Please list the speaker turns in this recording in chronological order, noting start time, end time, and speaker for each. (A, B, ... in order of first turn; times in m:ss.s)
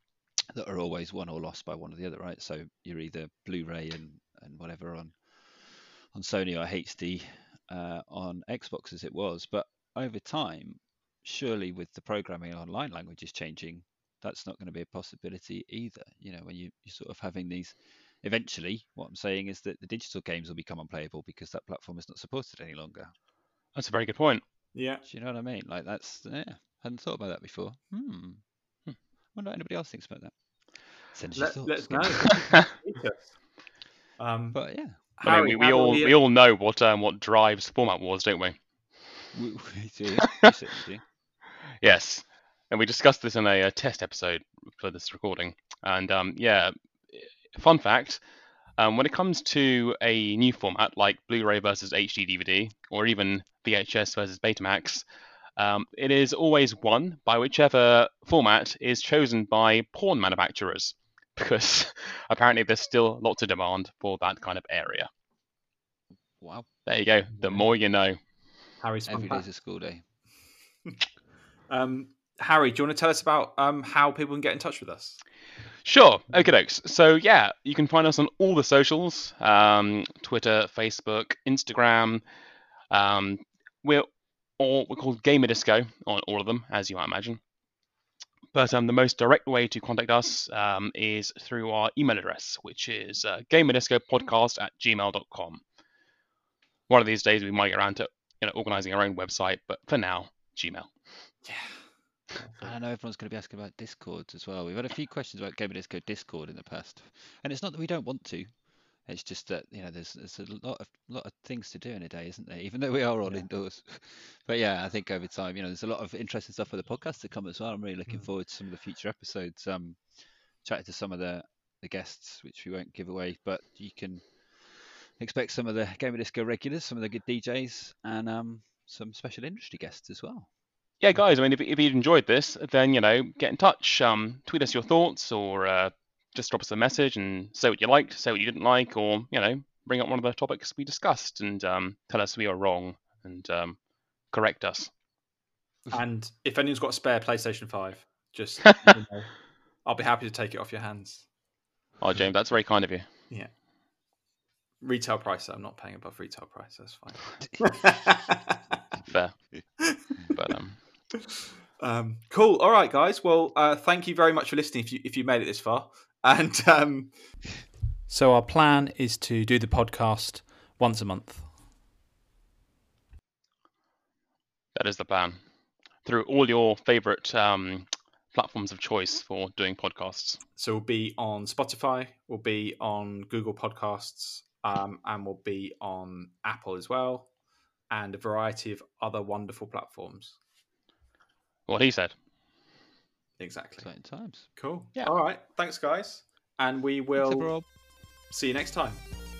0:00.5-0:23.1 A
0:23.7-0:24.4 B
0:24.7-0:25.0 C
0:25.0-0:28.4 A
0:29.3-0:30.3 A
0:30.9-0:32.5 A
0:31.4-0:33.4 C
0:34.2-0:34.6 C
0:34.5-0:35.0 A
0:35.2-0:36.2 C
0:35.2-0:38.6 B
0:39.3-0:41.0 A
0:41.8-0:48.2 B
0:48.8-0:55.0 B
0:55.6-1:05.1 B
1:06.4-1:06.7 A
1:06.8-1:08.2 B
1:07.4-1:07.7 C
1:08.8-1:09.5 C
1:09.1-1:10.0 A
1:11.7-1:15.2 C
1:15.8-1:22.2 B
1:22.9-1:24.1 B
1:24.6-1:27.4 B
1:28.5-1:35.6 B
1:36.9-1:40.9 B
1:41.4-1:42.7 C
1:42.6-2:10.5 A
2:11.0-2:23.8 B
2:24.3-2:24.9 B
2:25.9-2:31.3 C
2:32.0-2:33.1 B
2:34.8-2:38.8 C
2:39.1-2:40.8 B
2:39.8-2:40.0 C
2:41.8-2:47.2 C
2:48.1-2:51.5 C
2:54.7-2:55.4 B
2:56.0-3:00.4 B
3:00.6-3:07.3 C
3:07.9-3:10.4 C
3:11.7-3:12.1 B
3:13.4-3:13.9 C
3:13.8-3:14.6 A
3:14.5-3:17.7 C
3:17.2-3:17.7 A
3:18.3-3:19.0 C